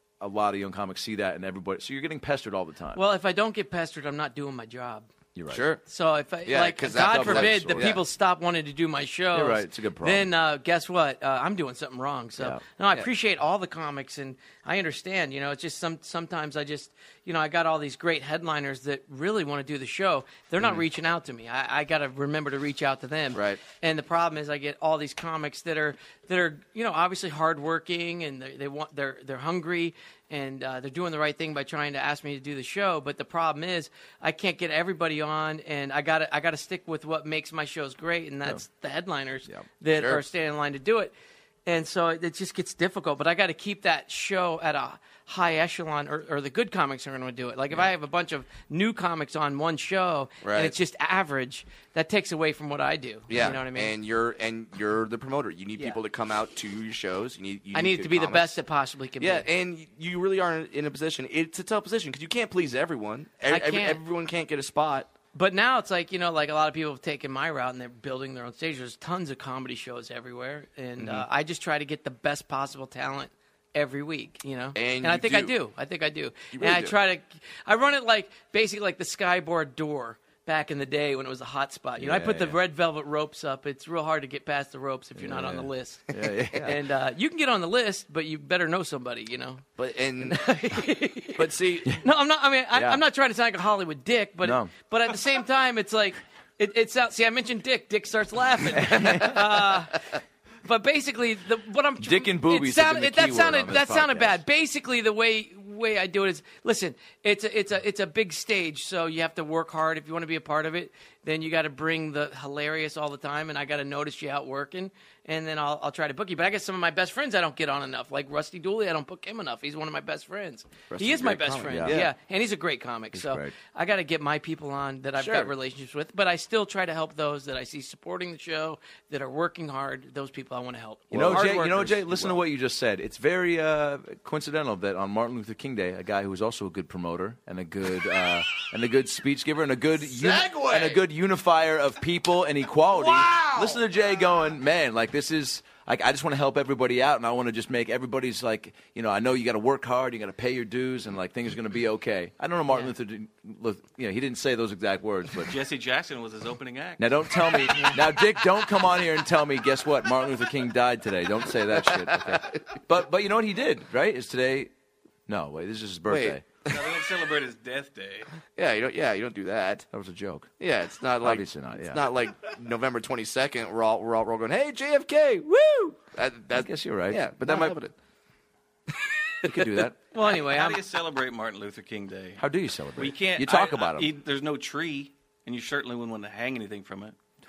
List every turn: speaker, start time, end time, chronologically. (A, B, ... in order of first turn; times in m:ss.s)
0:00.2-0:03.0 A
0:02.9-0:05.1 B
0:05.4-0:05.6 A
0:05.5-0:05.8 C
0:05.9-0:41.1 B
0:06.5-0:08.0 C
0:06.9-0:08.0 A
0:09.3-0:10.3 A
0:23.3-0:23.6 C
0:39.9-0:40.2 C
0:41.7-0:53.9 B
0:50.4-0:50.8 C
0:53.3-0:58.6 C
0:57.7-0:59.5 B
0:59.2-1:05.1 C
1:03.5-1:04.0 B
1:05.3-1:29.6 B
1:11.0-1:11.3 C
1:14.8-1:15.5 C
1:16.5-1:17.0 C
1:22.0-1:22.6 A
1:25.2-1:26.8 A
1:29.8-1:30.4 C
1:30.2-1:31.5 B
1:31.4-1:32.0 C
1:32.0-1:40.0 B
1:32.7-1:33.0 A
1:34.4-1:34.7 A
1:38.8-1:39.4 A
1:40.6-2:12.3 B
1:42.0-1:44.4 A
2:00.9-2:02.1 C
2:01.7-2:02.1 A
2:03.1-2:03.5 A
2:05.2-2:05.5 C
2:11.1-2:11.5 C
2:11.1-2:35.6 A
2:20.2-2:21.0 C
2:23.1-2:23.8 C
2:35.5-2:37.2 D
2:37.0-2:44.7 A
2:37.7-2:38.0 B
2:42.0-2:42.6 C
2:45.3-2:46.4 A
2:46.1-2:46.8 C
2:46.7-2:48.3 D
2:48.6-2:49.9 C
2:49.9-2:50.5 A
2:50.6-2:57.9 C
2:51.2-2:52.0 A
2:56.5-2:57.8 A
2:59.4-2:59.9 C
2:59.4-3:00.0 A
3:00.1-3:00.8 B
3:00.2-3:02.4 D
3:02.4-3:04.1 A
3:03.0-3:07.2 D